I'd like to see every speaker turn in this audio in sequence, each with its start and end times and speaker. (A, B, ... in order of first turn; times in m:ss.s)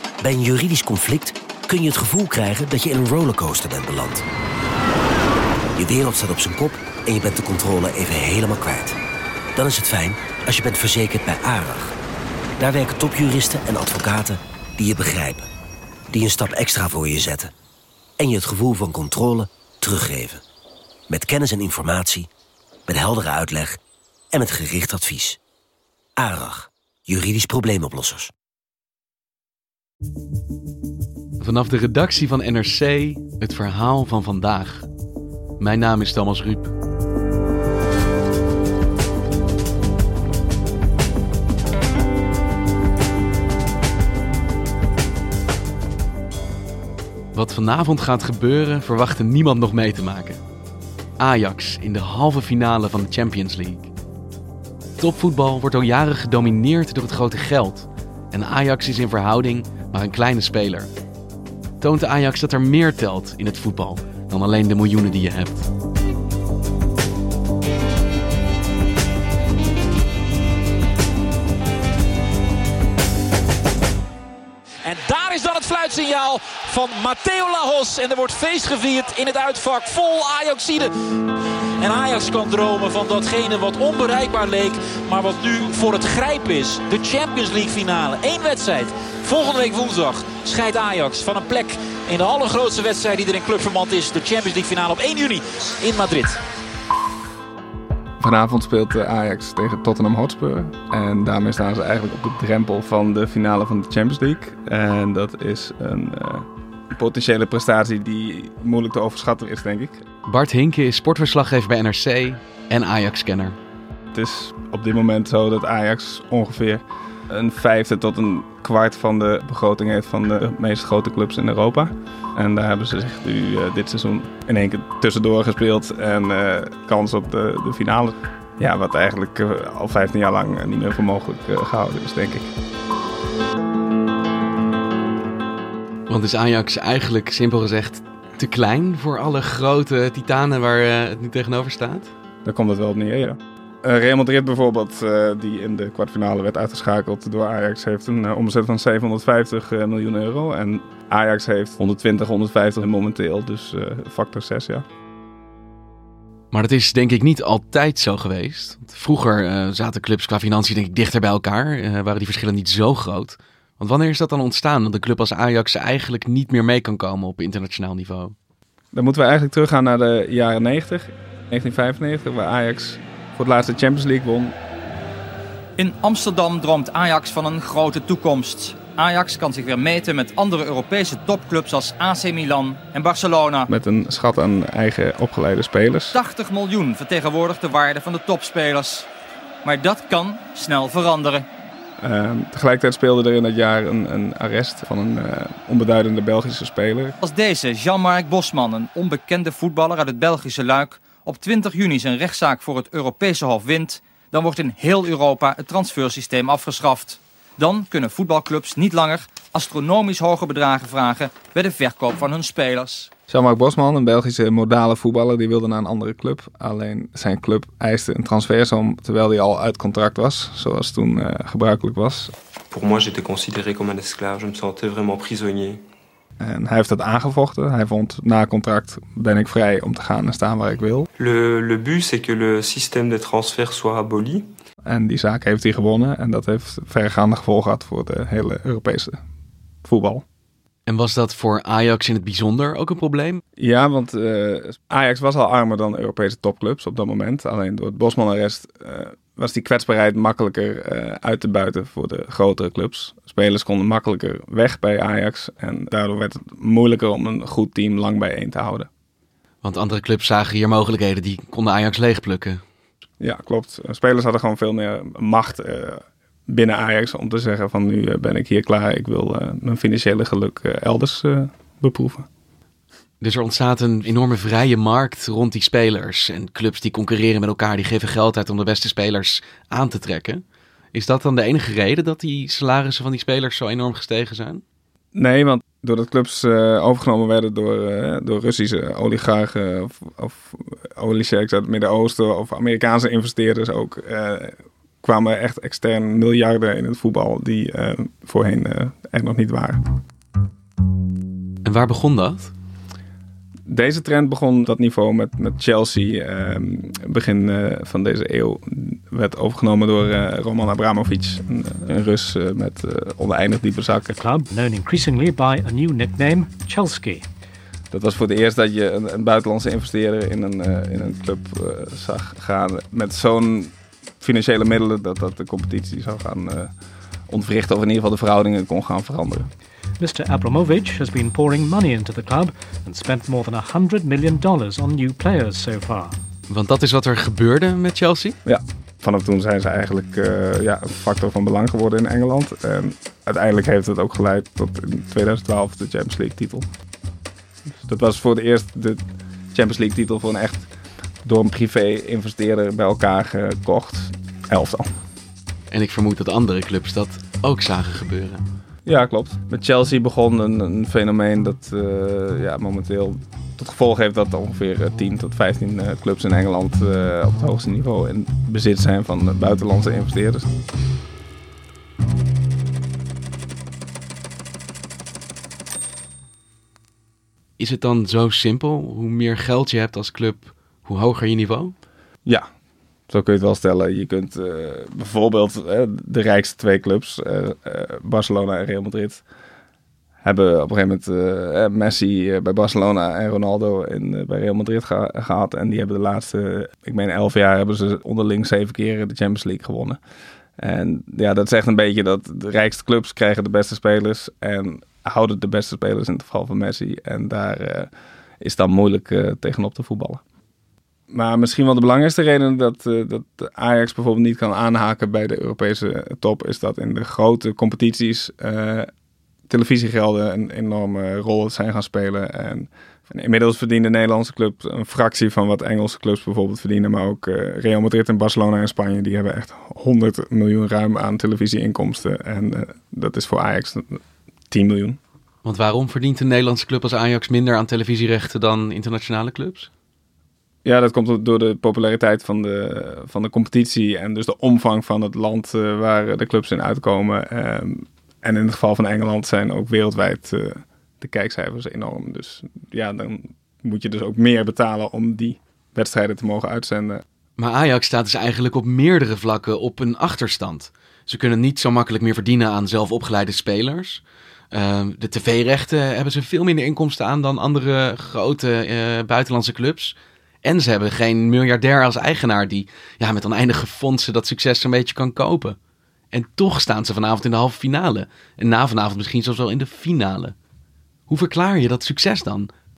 0:00.2-0:04.2 A
0:05.8-0:09.0 A
0:09.6-0:11.9 A
0:12.6-0:15.5 A
0:16.1-0:17.5 A
0:18.2-0:20.4 A
0:21.1-0:22.3 A
0:22.9-0:23.8 A
0:24.3-0:25.4 A
0:26.2-0:28.3 A
0:31.4-0:34.9 B
0:35.6-0:36.7 B
0:47.3-0:50.4 B
0:51.2-0:53.9 B
0:55.0-1:00.9 B
1:01.8-1:05.7 B
1:14.8-1:20.9 C
1:21.8-1:36.4 C
1:38.2-1:50.0 D
1:50.2-1:53.6 B
1:54.1-2:12.5 D
2:16.1-2:22.1 B
2:22.4-2:34.8 D
2:36.5-2:48.3 B
2:48.9-2:54.5 D
2:55.8-3:03.7 E
3:03.7-3:06.2 D
3:06.1-3:09.1 E
3:09.6-3:11.4 E
3:12.0-3:17.2 D
3:17.2-3:33.1 E
3:33.3-3:42.3 D
3:42.7-3:45.8 F
3:46.4-3:51.1 D
3:51.2-3:54.5 F
3:54.8-3:59.2 D
3:59.8-4:00.2 D
4:00.9-4:03.4 B
4:03.6-4:18.9 D
4:19.6-4:22.6 B
4:23.2-4:32.2 D
4:33.2-4:44.6 B
4:45.1-4:59.8 D
5:01.6-5:02.5 B
5:03.7-5:14.2 D
5:14.2-5:17.2 G
5:17.9-5:26.7 D
5:27.3-5:29.5 D
5:30.0-5:36.1 G
5:36.5-5:38.4 B
5:38.4-5:46.6 D
5:47.8-5:49.0 D
5:49.5-5:50.7 D
5:51.2-5:54.8 D
5:55.7-5:58.4 B
5:58.8-6:10.5 D
6:17.6-6:21.7 B
6:23.1-6:29.2 D
6:30.2-6:40.0 D
6:40.6-6:47.9 D
6:48.4-6:50.2 D
6:51.1-6:58.9 D
6:59.5-7:15.0 D
7:15.4-7:19.7 B
7:20.6-7:37.0 D
7:37.4-7:55.6 B
7:56.1-8:00.3 B
8:01.1-8:02.5 B